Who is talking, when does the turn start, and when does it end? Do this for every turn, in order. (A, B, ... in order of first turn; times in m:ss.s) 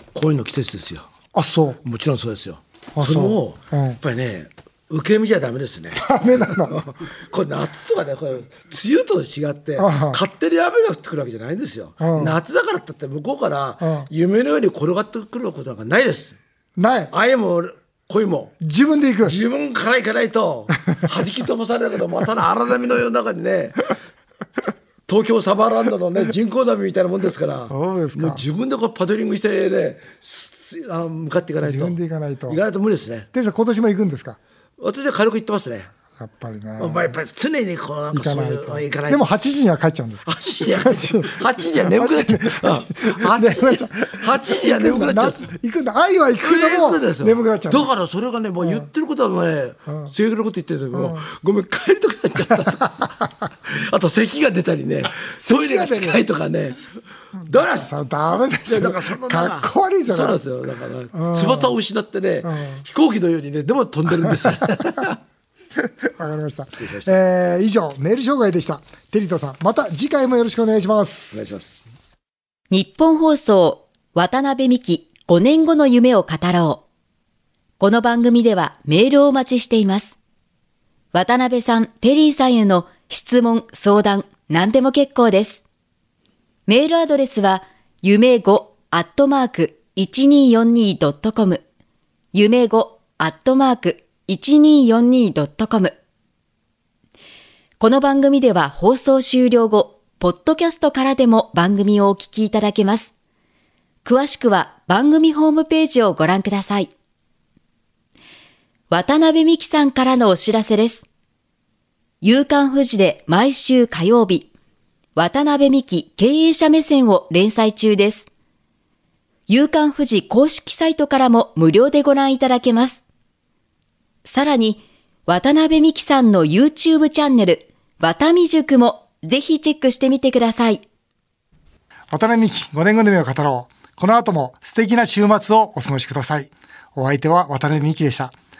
0:00.1-0:01.1 A
0:01.3-0:01.8 B
0:01.8-0:16.4 A
0:03.0-0:04.0 B
0:06.0-0:06.8 B
0:09.8-0:10.2 B
0:12.0-0:12.4 B
0:13.8-0:14.1 B
0:16.8-0:17.1 B
0:17.1-0:18.6 A
0:18.6-0:19.4 B
0:19.2-0:23.9 A
0:25.1-0:33.3 A
0:27.7-0:28.4 B
0:31.6-0:32.6 B
0:33.3-0:34.4 B
0:34.8-0:35.9 A
0:36.2-0:37.1 B
0:36.8-0:39.3 A
0:38.1-0:41.4 B
0:40.3-0:45.5 A
0:41.9-0:47.9 B
0:46.4-0:56.9 A
0:50.9-0:51.2 B
0:55.4-0:56.2 B
0:57.4-0:57.9 A
0:57.5-1:00.4 B
0:58.6-1:05.2 A
1:01.1-1:01.7 B
1:02.4-1:02.8 B
1:06.2-1:11.4 B
1:06.8-1:07.1 A
1:11.3-1:11.9 A
1:12.7-1:16.8 C
1:17.8-1:20.2 C
1:21.1-1:25.6 C
1:26.7-1:31.6 C
1:32.3-1:35.9 C
1:37.8-1:43.1 C
1:44.0-1:46.9 C
1:48.9-1:51.0 C
1:52.2-1:54.5 C
1:55.2-1:58.3 C
1:59.5-2:03.0 C
2:04.2-2:10.8 C
2:12.1-2:18.3 B